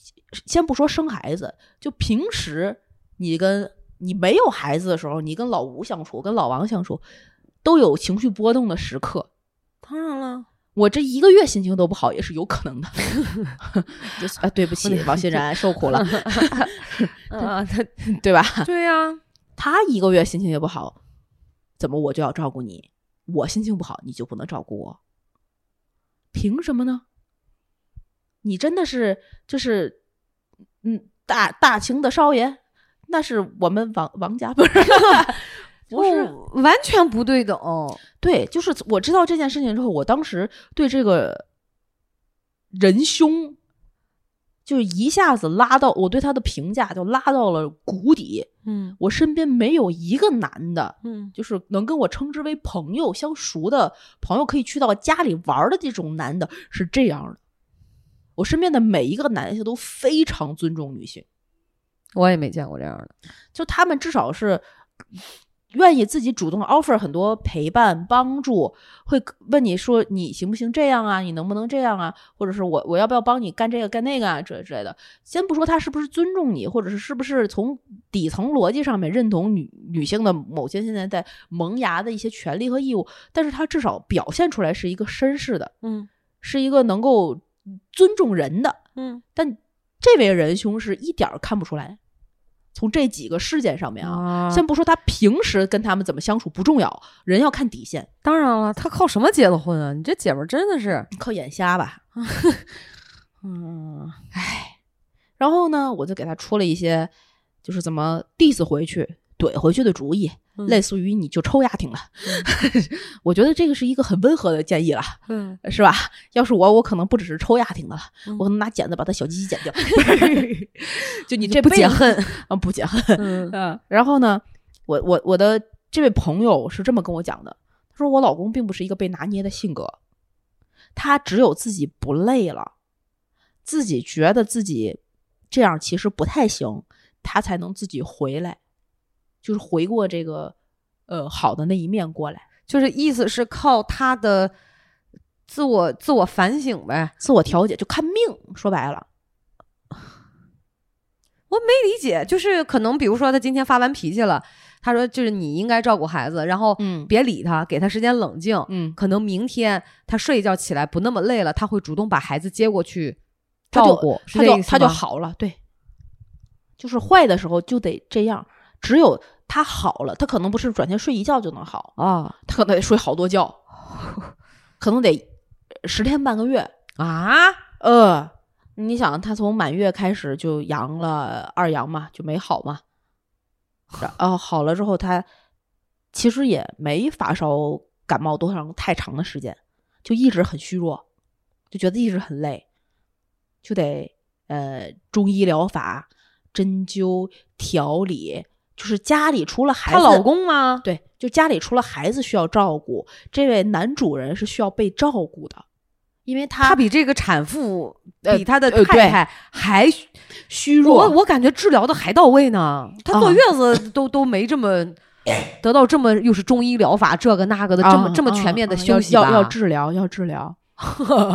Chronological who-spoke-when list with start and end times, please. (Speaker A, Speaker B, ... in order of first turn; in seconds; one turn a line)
Speaker A: 0.3-7.0
Speaker A: 7.6-9.3
Speaker B: 9.8-10.5
Speaker A: 10.7-17.5
Speaker B: 14.8-18.0
Speaker A: 18.1-18.7
Speaker B: 18.6-19.2
Speaker A: 19.6-20.9
Speaker A: 21.8-25.0
Speaker A: 26.3-27.0
Speaker A: 28.4-29.9
Speaker A: 30.8-36.3
Speaker B: 35.9-38.0
Speaker A: 38.2-41.4
Speaker A: 42.7-43.6
Speaker A: 44.6-57.4
Speaker B: 48.6-49.0
Speaker B: 51.0-51.3
Speaker A: 58.4-61.2
Speaker B: 62.1-63.1
Speaker A: 63.5-64.6
Speaker A: 65.7-85.7
Speaker B: 85.8-86.1
Speaker A: 86.4-88.8
Speaker B: 89.0-89.2
Speaker A: 89.3-92.0
Speaker A: 92.7-98.1
Speaker B: 94.0-94.6
Speaker B: 98.2-101.1
Speaker A: 101.1-102.0
Speaker B: 102.2-102.7
Speaker B: 103.4-104.2
Speaker A: 104.3-104.8
Speaker A: 105.4-107.1
Speaker A: 107.6-130.0
Speaker B: 115.3-115.6
Speaker B: 121.4-122.4
Speaker B: 123.2-123.5
Speaker A: 130.9-132.7
Speaker A: 133.6-135.0
Speaker A: 135.5-138.6
Speaker A: 139.4-140.5
Speaker A: 141.1-142.4
Speaker B: 142.7-144.5
Speaker B: 145.5-147.1
Speaker A: 147.2-149.1
Speaker B: 151.5-163.2
Speaker A: 156.8-157.1
Speaker A: 158.7-159.0
Speaker B: 163.7-165.0
Speaker A: 163.7-165.6
Speaker A: 166.8-171.9
Speaker B: 172.0-172.3
Speaker A: 172.4-173.6
Speaker A: 174.8-175.2
Speaker A: 175.8-176.7
Speaker B: 177.0-177.6
Speaker A: 177.8-182.8
Speaker A: 184.0-185.3
Speaker A: 186.1-191.0
Speaker A: 191.7-192.6
Speaker A: 193.6-200.2
Speaker B: 199.9-200.8
Speaker A: 200.8-205.6
Speaker A: 206.2-206.8
Speaker B: 206.6-210.1
Speaker A: 208.2-209.2
Speaker A: 210.5-211.2
Speaker B: 210.8-219.5
Speaker A: 213.1-213.4
Speaker A: 217.8-220.6